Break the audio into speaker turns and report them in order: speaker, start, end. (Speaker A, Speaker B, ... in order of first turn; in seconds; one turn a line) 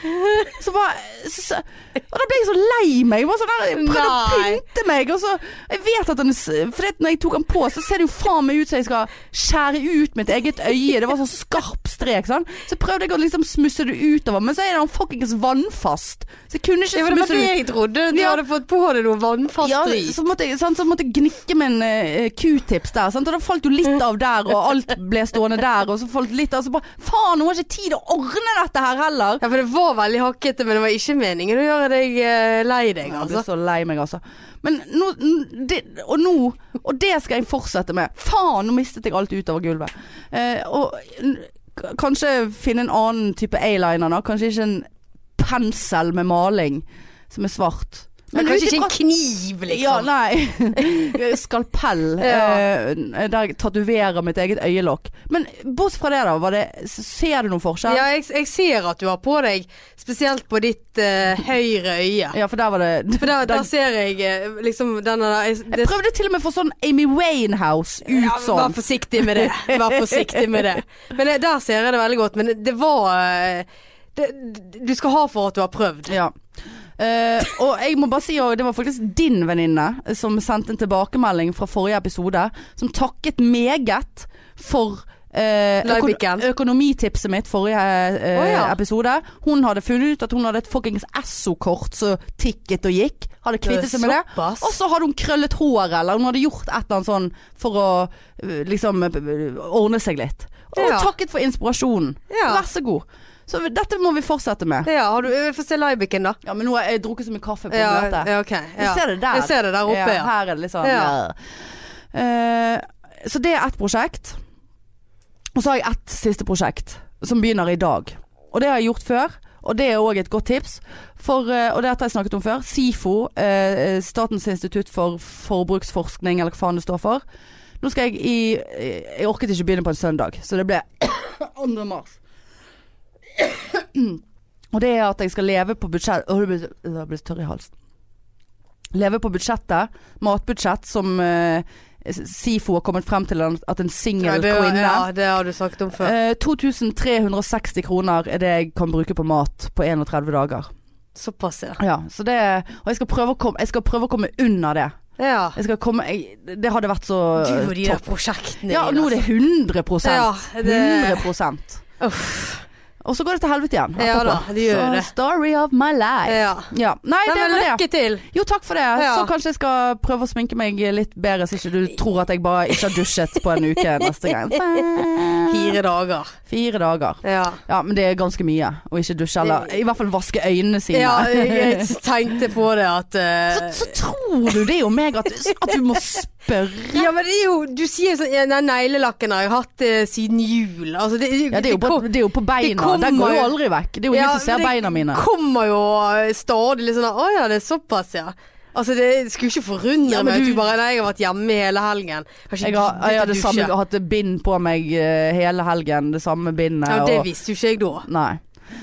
Speaker A: 0.4-17.6
Speaker B: 3.8-4.6
Speaker B: 16.9-20.2
Speaker A: 18.1-18.4
Speaker A: 19.6-29.4
Speaker B: 29.4-33.5
Speaker A: 33.1-48.9
Speaker B: 48.3-50.1
Speaker A: 49.7-58.0
Speaker B: 52.2-52.6
Speaker B: 57.9-62.4
Speaker A: 62.3-63.7
Speaker B: 63.2-65.9
Speaker A: 65.7-70.7
Speaker B: 68.0-76.2
Speaker A: 76.1-76.4
Speaker A: 77.0-104.9
Speaker B: 85.8-86.5
Speaker B: 88.3-88.8
Speaker B: 93.6-94.7
Speaker B: 100.8-101.1
Speaker B: 102.3-102.6
Speaker B: 104.8-106.4
Speaker A: 106.4-111.4
Speaker B: 107.7-110.3
Speaker B: 110.8-111.1
Speaker A: 112.1-114.4
Speaker A: 115.5-127.2
Speaker A: 127.8-132.2
Speaker A: 133.4-134.2
Speaker A: 134.7-137.7
Speaker A: 138.9-145.1
Speaker B: 144.2-146.1
Speaker A: 146.0-150.7
Speaker B: 151.2-151.8
Speaker A: 151.8-155.0
Speaker B: 155.2-155.6
Speaker A: 155.6-158.1
Speaker B: 157.4-159.2
Speaker A: 158.7-161.8
Speaker B: 160.0-161.3
Speaker B: 162.0-162.7
Speaker A: 163.0-175.8
Speaker B: 164.0-165.1
Speaker B: 166.3-166.7
Speaker B: 167.3-168.2
Speaker B: 169.0-169.3
Speaker B: 175.5-176.4
Speaker A: 176.5-181.9
Speaker B: 177.2-177.6
Speaker B: 179.4-179.7
Speaker B: 180.9-183.9
Speaker A: 183.5-187.1
Speaker B: 186.9-193.6
Speaker A: 191.5-195.2
Speaker B: 194.1-203.7
Speaker A: 200.1-200.7
Speaker A: 202.6-207.3
Speaker B: 206.9-208.1
Speaker A: 208.1-208.4